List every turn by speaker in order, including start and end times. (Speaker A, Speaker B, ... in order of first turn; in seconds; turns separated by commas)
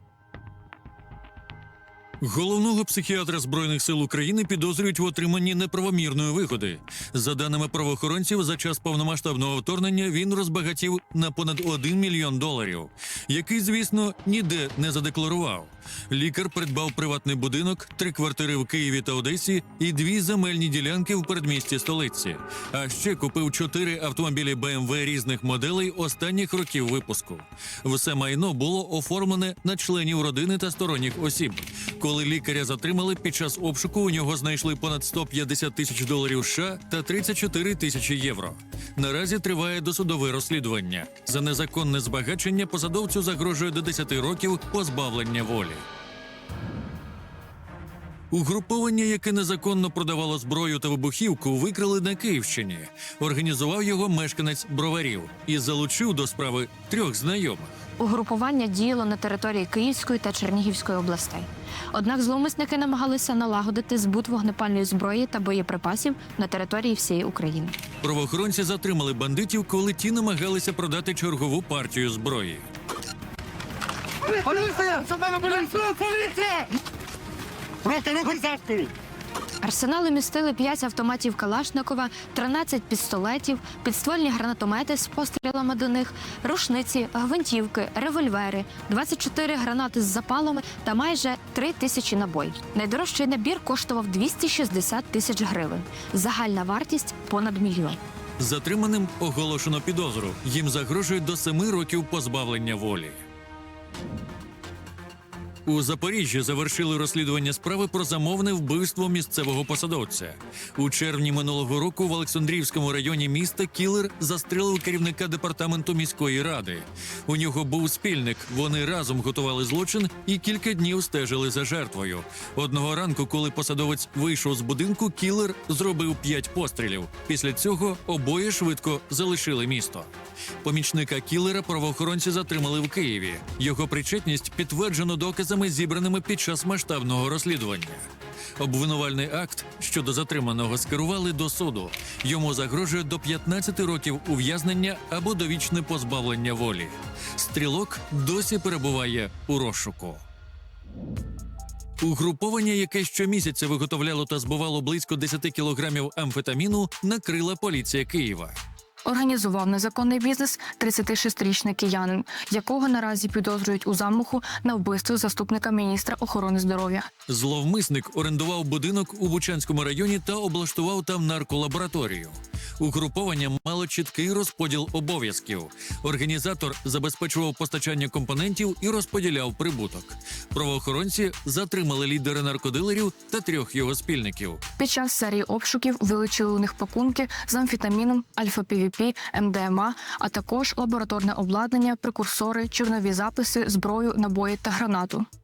Speaker A: 2.2-45.9, Speaker A: 48.3-57.8, Speaker B: 58.0-67.8, Speaker A: 68.0-72.6, Speaker C: 74.5-76.7, Speaker C: 77.8-78.9, Speaker B: 79.6-98.0, Speaker A: 98.4-103.2, Speaker A: 105.7-130.1, Speaker A: 130.6-138.1, Speaker A: 138.6-150.2, Speaker A: 152.0-158.6, Speaker D: 159.1-167.1, Speaker A: 167.3-184.6, Speaker D: 184.8-195.2